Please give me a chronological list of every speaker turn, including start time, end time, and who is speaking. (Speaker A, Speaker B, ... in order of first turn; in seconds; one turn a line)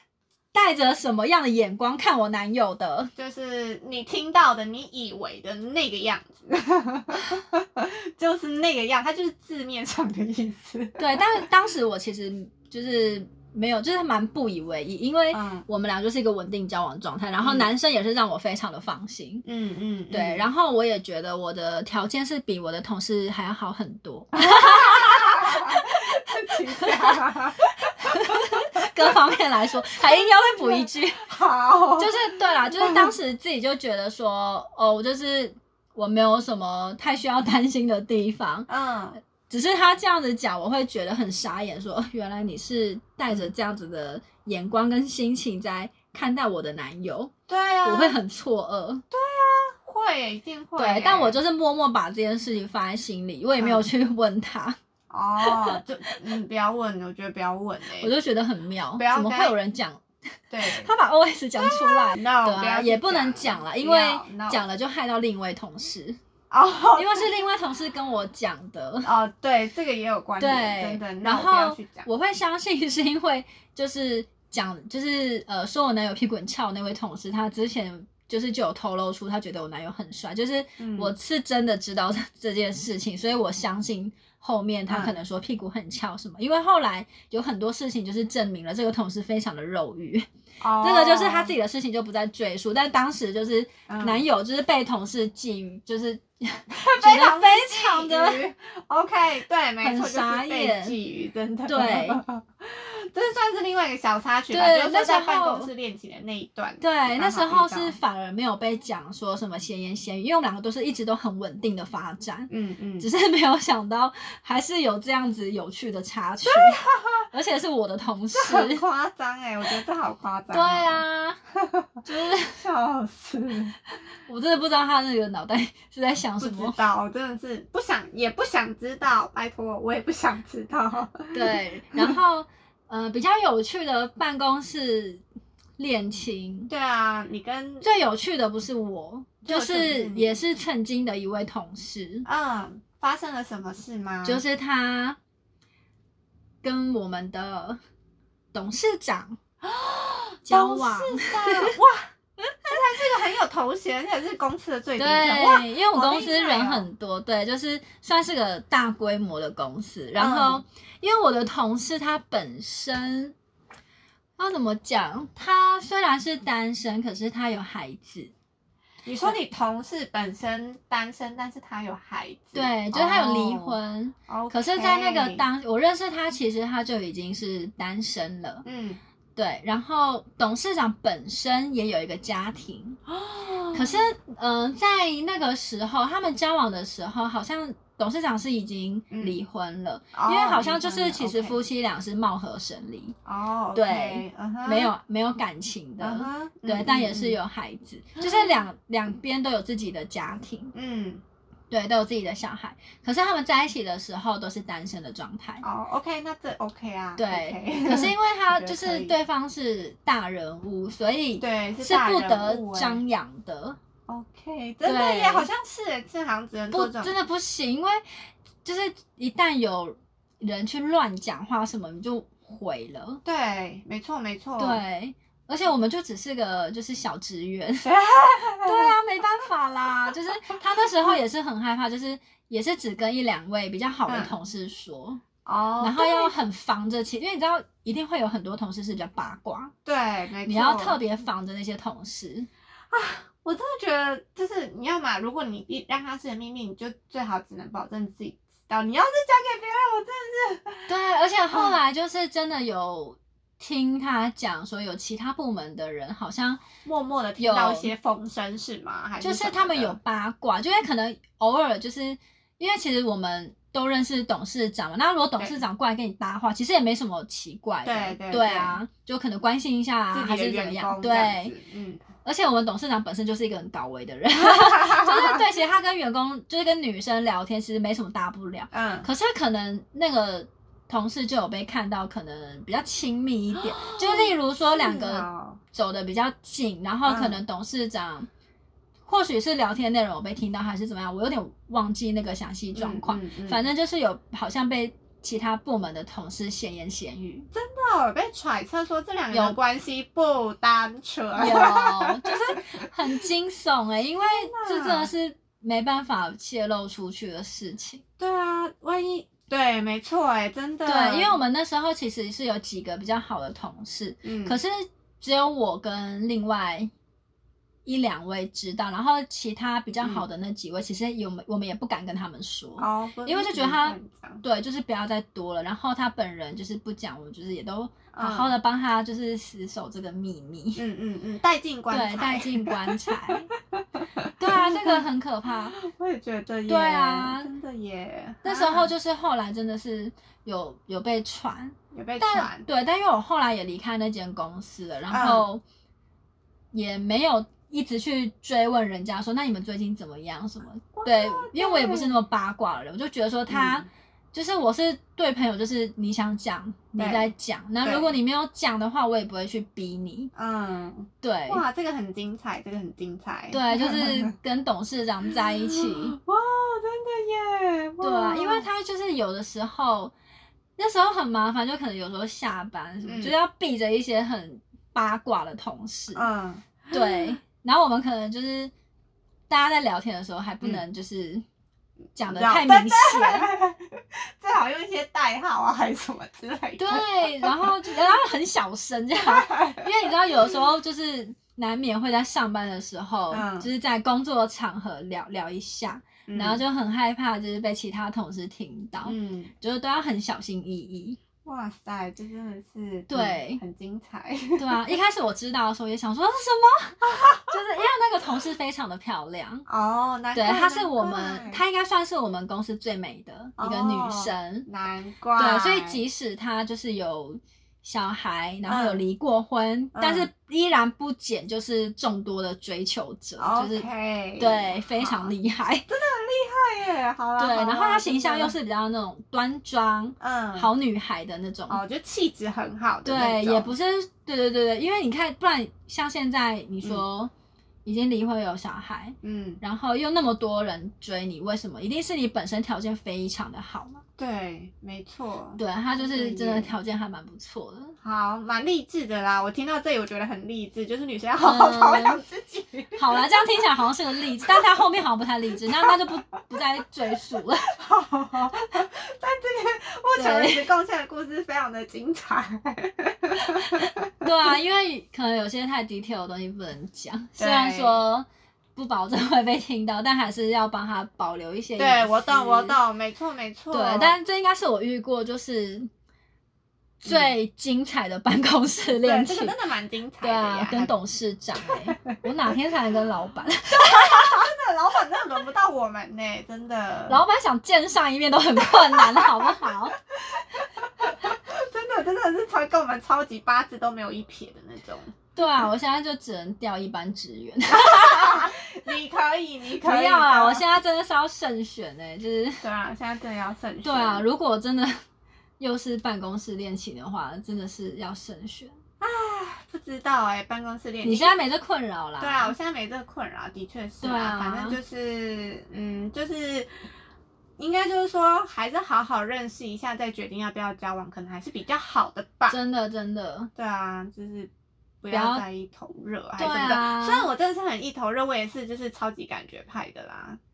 Speaker A: 0.5-3.1
Speaker B: 3.2-11.5
Speaker A: 11.0-19.4
Speaker B: 15.3-15.7
Speaker B: 17.4-17.7
Speaker B: 19.4-20.5
Speaker A: 20.1-25.9
Speaker B: 24.4-28.9
Speaker A: 26.8-27.2
Speaker A: 28.0-31.3
Speaker B: 30.6-32.2
Speaker A: 32.0-38.7
Speaker B: 32.7-33.1
Speaker B: 38.7-39.2
Speaker A: 39.5-47.3
Speaker B: 47.5-48.2
Speaker A: 47.8-49.0
Speaker B: 49.1-51.4
Speaker A: 50.8-54.8
Speaker B: 53.6-53.9
Speaker B: 55.1-58.1
Speaker A: 55.4-55.8
Speaker A: 58.0-60.0
Speaker B: 59.0-59.5
Speaker B: 60.5-60.9
Speaker A: 60.6-66.2
Speaker B: 61.6-64.7
Speaker B: 66.5-67.3
Speaker A: 67.0-69.1
Speaker B: 69.0-72.1
Speaker A: 70.4-90.3
Speaker B: 80.8-81.1
Speaker B: 84.9-85.2
Speaker B: 90.6-91.5
Speaker A: 90.8-98.4
Speaker B: 93.9-94.2
Speaker B: 96.7-108.0
Speaker A: 99.8-101.0
Speaker A: 101.7-102.2
Speaker A: 104.5-105.7
Speaker A: 106.8-116.8
Speaker B: 112.5-113.1
Speaker B: 116.4-117.3
Speaker A: 117.3-118.8
Speaker B: 118.3-121.0
Speaker A: 120.5-121.4
Speaker B: 121.6-123.8
Speaker A: 122.0-122.6
Speaker A: 124.3-126.8
Speaker B: 126.4-132.2
Speaker A: 131.3-135.2
Speaker A: 135.8-136.7
Speaker B: 136.7-137.9
Speaker A: 137.8-142.2
Speaker B: 139.4-140.4
Speaker B: 142.2-144.4
Speaker A: 144.2-145.2
Speaker A: 146.6-147.8
Speaker A: 148.5-149.4
Speaker B: 149.6-152.1
Speaker A: 150.5-151.8
Speaker A: 152.4-152.8
Speaker B: 152.6-156.9
Speaker A: 155.0-163.3
Speaker B: 160.2-160.6
Speaker A: 164.4-168.3
Speaker B: 169.1-173.8
Speaker A: 169.1-169.4
Speaker A: 172.5-178.6
Speaker B: 174.3-175.4
Speaker B: 178.6-179.0
Speaker A: 179.4-183.0
Speaker B: 183.1-184.0
Speaker A: 183.7-193.2
Speaker B: 189.1-189.4
Speaker B: 190.1-191.6
Speaker B: 193.3-194.9
Speaker A: 193.7-200.7
Speaker B: 196.0-197.4
Speaker B: 198.2-198.6
Speaker B: 200.7-201.2
Speaker A: 201.7-205.7
Speaker B: 205.6-209.2
Speaker A: 207.2-213.8
Speaker B: 211.4-213.0
Speaker B: 214.1-217.2
Speaker A: 214.8-215.5
Speaker A: 216.7-218.0
Speaker A: 218.6-223.2
Speaker B: 223.2-224.8
Speaker A: 224.6-227.9
Speaker B: 227.8-229.0
Speaker A: 228.7-235.2
Speaker B: 230.5-231.2
Speaker B: 234.1-234.3
Speaker B: 235.4-236.3
Speaker A: 235.8-239.7
Speaker B: 239.8-241.0
Speaker A: 240.5-242.5
Speaker B: 242.9-250.9
Speaker A: 250.9-256.6
Speaker B: 251.5-251.8
Speaker B: 256.9-260.0
Speaker A: 257.4-257.9
Speaker A: 259.2-271.5
Speaker B: 267.8-268.8
Speaker B: 270.1-272.0
Speaker A: 272.2-288.3
Speaker B: 274.4-275.4
Speaker B: 278.7-279.1
Speaker B: 283.6-285.6
Speaker B: 287.1-287.4
Speaker A: 289.1-297.5
Speaker B: 292.8-293.7
Speaker B: 297.5-302.9
Speaker A: 301.4-308.0
Speaker B: 304.2-305.1
Speaker B: 308.2-311.4
Speaker A: 310.9-316.9
Speaker B: 314.2-314.6
Speaker A: 317.9-330.8
Speaker B: 322.8-324.4
Speaker B: 328.1-328.6
Speaker B: 330.8-335.0
Speaker A: 331.9-333.5
Speaker A: 334.4-335.7
Speaker B: 335.7-338.9
Speaker A: 336.7-337.5
Speaker A: 338.4-345.6
Speaker B: 341.9-342.6
Speaker B: 345.1-345.5
Speaker A: 346.7-360.3
Speaker B: 350.9-352.1
Speaker B: 353.5-353.9
Speaker B: 357.0-357.3
Speaker B: 357.8-358.1
Speaker B: 360.3-364.3
Speaker A: 361.2-361.6
Speaker A: 363.5-366.2
Speaker B: 365.3-368.7
Speaker A: 368.0-370.1
Speaker A: 370.8-376.2
Speaker B: 373.0-373.4
Speaker B: 376.1-377.4
Speaker A: 376.9-378.7
Speaker A: 379.5-381.4
Speaker A: 382.2-383.5
Speaker B: 382.2-387.9
Speaker A: 386.8-401.2
Speaker B: 389.2-389.9
Speaker B: 393.3-393.7
Speaker B: 396.3-396.6
Speaker B: 399.1-399.5
Speaker B: 401.4-404.8
Speaker A: 403.1-403.6
Speaker A: 404.6-409.7
Speaker B: 407.0-407.5
Speaker B: 409.7-411.6
Speaker A: 410.4-414.7
Speaker B: 413.6-416.0
Speaker A: 415.4-423.9
Speaker B: 418.7-419.0
Speaker B: 419.9-420.3
Speaker B: 423.4-425.3
Speaker A: 424.4-425.9
Speaker B: 425.9-428.5
Speaker A: 427.4-431.8
Speaker B: 430.2-430.7
Speaker B: 431.7-433.7
Speaker A: 433.1-437.3
Speaker A: 437.9-444.0
Speaker B: 439.2-439.6
Speaker B: 444.2-446.7
Speaker A: 445.6-448.0
Speaker B: 448.0-453.5
Speaker A: 451.4-452.2
Speaker A: 453.0-457.7
Speaker B: 454.3-454.6
Speaker B: 455.8-456.1
Speaker B: 457.6-464.2
Speaker A: 460.2-460.7
Speaker A: 464.2-472.8
Speaker B: 467.4-468.0
Speaker B: 471.8-474.1
Speaker A: 473.7-475.9
Speaker A: 477.0-479.5
Speaker B: 477.1-477.3
Speaker B: 479.0-480.9
Speaker A: 480.2-484.4
Speaker B: 481.6-482.2
Speaker B: 483.8-487.2
Speaker A: 487.1-490.0
Speaker B: 488.7-495.1
Speaker A: 495.4-498.5
Speaker B: 497.7-500.6
Speaker A: 499.8-502.6
Speaker B: 502.6-504.2
Speaker A: 503.8-505.0
Speaker A: 505.6-508.7
Speaker B: 509.0-511.3
Speaker A: 511.0-512.5
Speaker B: 512.2-516.7
Speaker A: 514.0-514.8
Speaker B: 517.6-522.6
Speaker A: 522.5-523.5
Speaker B: 523.5-524.5
Speaker B: 525.0-530.4
Speaker A: 525.1-525.4
Speaker A: 526.4-527.3